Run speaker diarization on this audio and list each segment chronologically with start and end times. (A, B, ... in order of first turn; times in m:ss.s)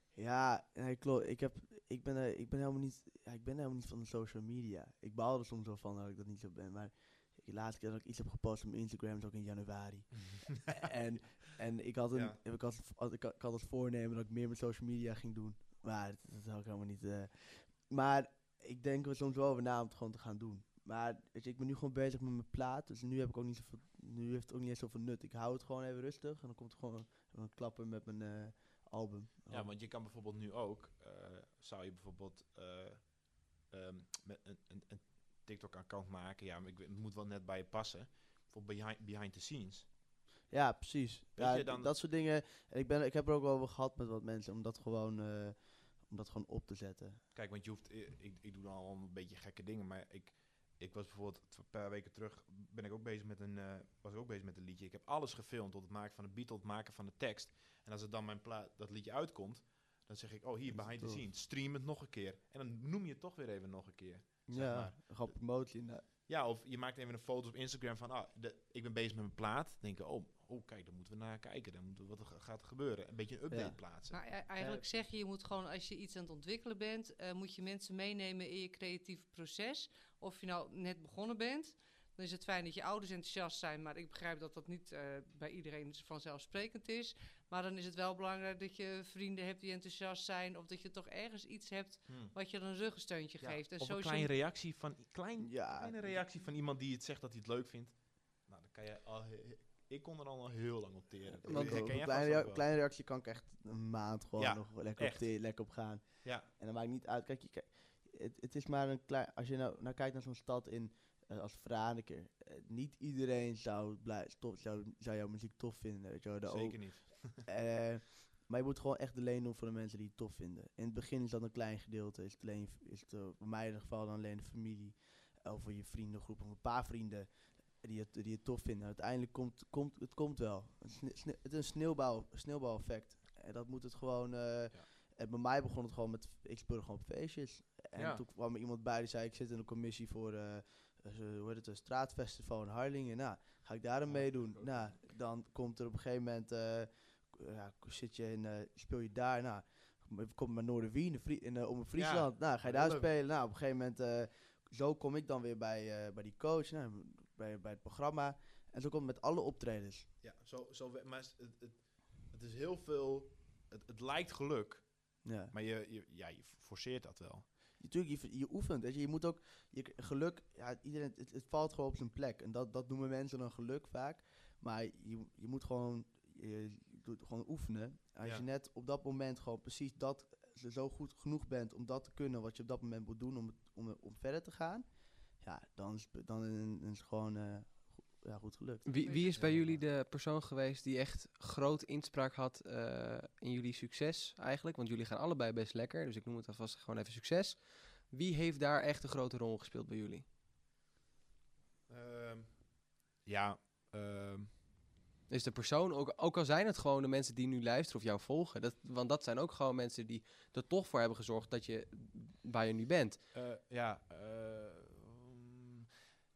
0:00.2-0:29.7 A
0:10.3-0:10.7 B
0:12.1-0:12.4 B
0:29.5-0:39.9 B
0:40.5-0:47.2 A
0:41.4-0:41.9 B
0:47.3-1:05.4 B
1:00.7-1:01.2 A
1:04.5-1:06.0 A
1:06.3-1:14.2 B
1:13.5-1:13.8 A
1:14.1-1:34.3 C
1:14.6-1:14.8 A
1:32.1-1:32.3 B
1:33.4-1:42.6 B
1:35.4-1:36.2 A
1:41.2-2:40.1 A
1:41.5-1:41.8 D
1:44.4-1:45.3 B
1:56.5-1:57.4 B
2:18.0-2:18.2 B
2:24.1-2:25.0 B
2:32.0-2:33.1 B
2:40.2-2:47.5 B
2:45.2-2:45.5 A
2:47.8-3:09.0 A
3:08.9-3:20.2 D
3:09.0-3:09.5 C
3:09.4-3:09.8 B
3:21.9-3:22.7 B
3:23.2-3:24.6 B
3:25.3-3:33.2 D
3:33.3-3:35.9 B